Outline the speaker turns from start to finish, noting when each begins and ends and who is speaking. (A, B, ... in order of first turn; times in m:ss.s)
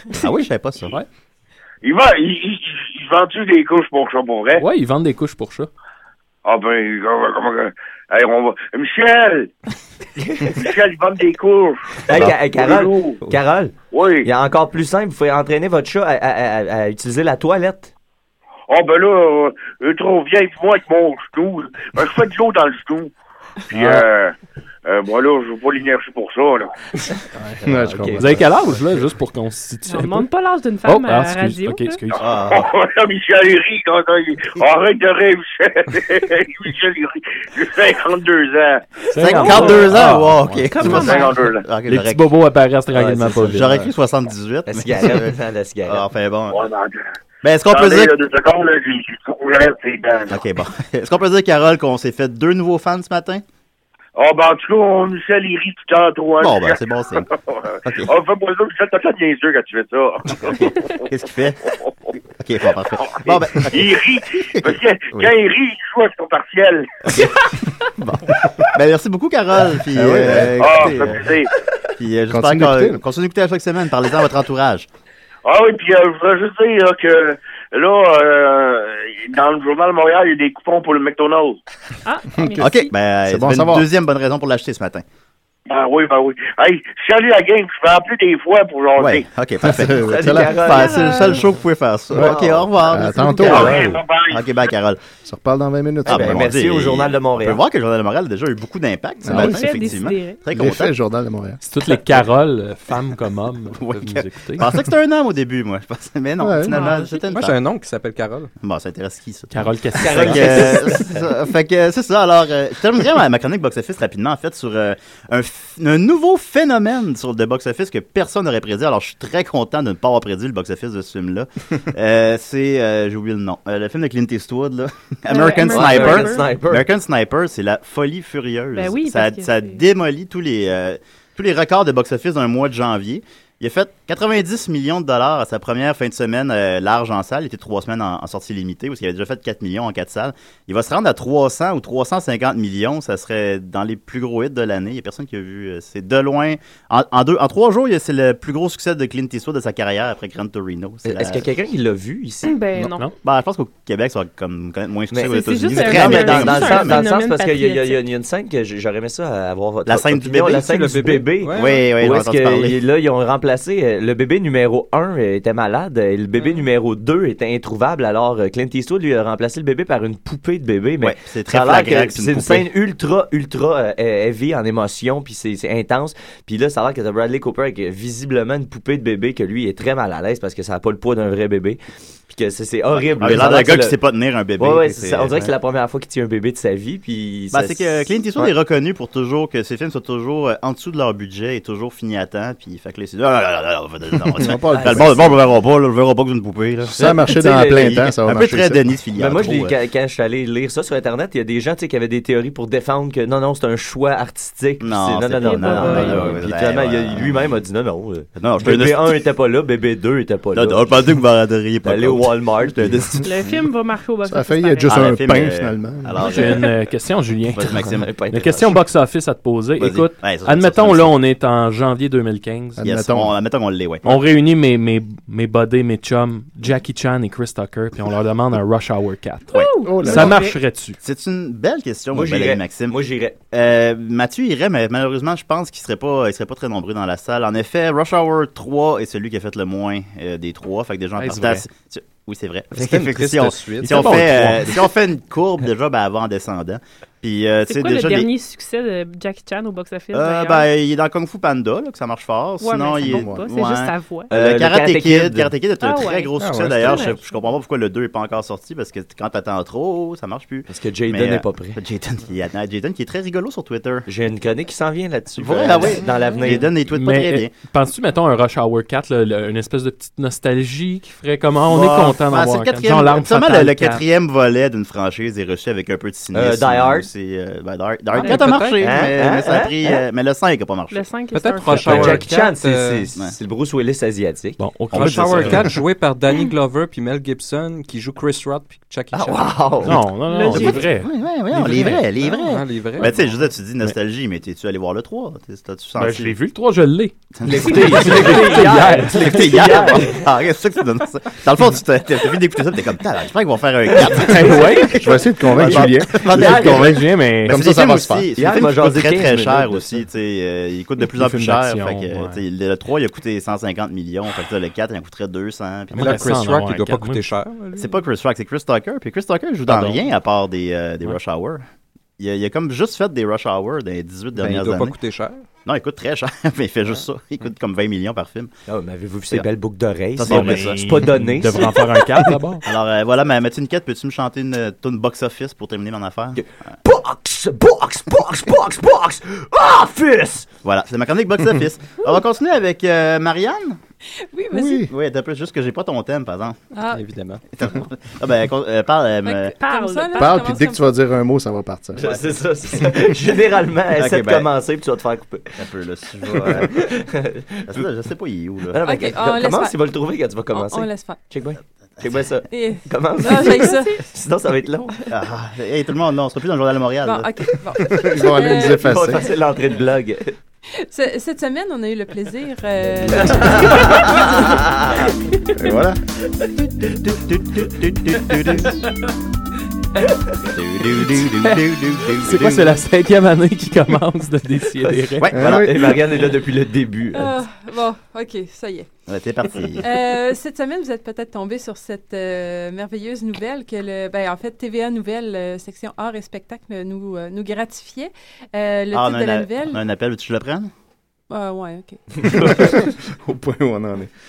0:00.2-0:01.0 A
0:01.8-0:04.6 B
0:04.6-0:05.7 C
0:06.4-0:09.5 B
0:10.2-0:10.6 D
0:10.6-0:13.2 B
0:12.0-0:17.9 D
0:13.9-0:14.3 B
0:18.7-0:23.1 B
0:23.7-0:24.3 B
0:24.8-0:26.7 B
0:27.6-0:28.7 E
0:27.6-0:28.4 D
0:28.2-0:30.3 C
0:29.8-0:32.0 F
0:30.8-0:32.3 C
0:32.2-0:32.7 A
0:32.5-0:39.1 B
0:39.1-0:41.0 C
0:39.2-0:42.3 A
0:40.8-0:41.6 B
0:40.9-0:41.2 F
0:41.9-0:43.8 C
0:42.9-0:43.5 D
0:43.4-0:45.3 A
0:44.7-0:46.0 D
0:45.9-0:46.6 A
0:46.5-0:47.0 B
0:47.4-0:48.1 A
0:47.7-0:50.4 B
0:50.3-0:53.4 A
0:54.2-1:00.6 B
0:56.4-0:57.3 A
0:57.8-0:58.1 A
1:00.4-1:01.7 A
1:02.4-1:05.3 A
1:03.0-1:06.9 B
1:07.1-1:11.3 A
1:09.9-1:11.3 E
1:10.6-1:11.5 B
1:12.0-1:14.9 A
1:12.3-1:13.0 E
1:15.4-1:21.6 B
1:22.0-1:22.9 F
1:22.3-1:23.8 E
1:22.6-1:25.0 A
1:25.7-1:29.2 B
1:29.0-1:35.0 A
1:29.6-1:30.6 E
1:30.0-1:31.3 D
1:30.7-1:31.4 F
1:32.1-1:33.8 E
1:32.1-1:34.0 D
1:33.5-1:34.5 B
1:35.2-1:36.5 E
1:36.0-1:37.6 D
1:36.0-1:40.9 A
1:39.2-1:39.9 E
1:39.3-1:40.4 F
1:40.5-1:41.6 E
1:41.6-1:44.7 C
1:43.8-1:47.6 A
1:46.4-1:46.8 E
1:46.6-1:47.3 F
1:47.3-1:48.5 G
1:48.6-2:31.4 A
1:49.5-1:51.0 C
1:50.0-1:51.0 D
2:05.3-2:06.5 F
2:05.7-2:06.9 D
2:08.7-2:09.8 F
2:31.0-2:32.6 D
2:32.4-2:33.1 F
2:33.2-2:37.0 A
2:35.1-3:04.0 D
2:35.2-2:38.0 F
2:39.8-2:40.6 A
2:40.6-2:41.9 G
2:41.5-2:42.8 A
2:51.0-2:52.7 A
3:02.9-3:05.5 A
3:04.6-3:07.9 D
3:07.5-3:19.7 A
3:14.3-3:15.2 E
3:14.7-3:15.3 D
3:16.9-3:18.8 E
3:17.0-3:18.2 D
3:19.2-3:30.9 D
3:24.8-3:27.5 A
3:25.4-3:26.4 F
3:28.4-3:29.2 A
3:30.5-3:33.3 A
3:31.8-3:33.0 D
3:33.2-3:35.1 F
3:34.2-3:36.2 E
3:34.8-3:36.8 A
3:36.2-3:42.8 C
3:36.3-3:36.5 F
3:37.5-3:38.7 A
3:37.9-3:38.7 D
3:39.8-3:41.2 A
3:42.8-3:43.4 E
3:42.8-3:44.2 A
3:44.0-3:51.0 C
3:49.5-3:50.6 F
3:49.8-3:50.4 E
3:51.0-3:53.0 A
3:52.1-3:53.4 D
3:53.5-4:08.3 A
4:01.2-4:01.6 C
4:02.7-4:04.4 G
4:03.8-4:04.7 C
4:07.7-4:10.7 F
4:10.1-4:24.0 A
4:12.6-4:14.3 F
4:13.1-4:13.4 E
4:14.3-4:15.5 D
4:15.8-4:17.2 F
4:16.4-4:17.1 G
4:20.7-4:21.8 D
4:24.0-4:26.7 D
4:25.4-4:27.5 A
4:26.1-4:26.5 F
4:26.9-4:34.0 C
4:31.6-4:41.1 A
4:36.3-4:37.1 D
4:38.1-4:39.1 G
4:38.8-4:40.0 D
4:40.9-4:42.2 F
4:41.3-4:43.1 G
4:41.7-4:44.6 D
4:44.6-4:45.7 C
4:44.9-4:49.6 G
4:44.9-4:45.7 A
4:49.1-4:50.0 D
4:49.8-4:51.1 C
4:50.2-4:50.9 F
4:50.5-4:56.4 A
4:51.5-4:53.3 G
4:51.6-4:52.0 C
4:56.0-4:59.6 C
4:57.4-5:16.4 A
4:57.5-5:00.2 D
5:04.2-5:05.1 C
5:04.9-5:08.3 E
5:05.6-5:06.9 D
5:06.3-5:07.6 C
5:08.4-5:10.0 D
5:11.0-5:12.4 C
5:15.9-5:17.3 C
5:16.0-5:18.0 G
5:17.7-5:21.6 A
5:22.2-5:25.0 A
5:24.4-5:25.4 G
5:25.6-5:28.5 A
5:28.7-5:32.0 D
5:30.2-5:30.8 A
5:30.2-5:32.6 C
5:32.6-5:36.4 A
5:36.4-5:40.5 D
5:40.6-5:43.8 A
5:44.3-5:44.8 H
5:44.5-5:44.9 E
5:44.8-5:46.6 A
5:46.7-5:47.0 H
5:46.9-5:47.4 G
5:47.5-5:49.5 A
5:49.2-5:50.9 H
5:49.6-5:50.4 F
5:50.2-5:52.2 E
5:52.0-5:55.6 D
5:54.0-5:54.5 A
5:55.6-5:56.9 A
5:56.2-5:57.8 D
5:57.6-5:58.8 A
5:58.7-6:04.9 D
5:58.8-5:59.8 H
6:00.5-6:01.2 H
6:02.5-6:04.0 H
6:05.1-6:07.3 A
6:07.0-6:09.0 H
6:07.8-6:09.3 E
6:08.6-6:10.3 D
6:10.8-6:14.5 H
6:13.3-6:14.7 D
6:15.5-6:16.0 E
6:16.8-6:18.7 A
6:20.4-6:22.8 A
6:21.3-6:25.3 C
6:24.8-6:27.4 D
6:25.2-6:26.0 A
6:25.3-6:26.0 E
6:27.1-6:28.9 H
6:29.1-6:29.9 A
6:29.8-6:39.8 H
6:38.9-6:40.7 A
6:41.3-6:42.0 H
6:42.2-6:44.1 E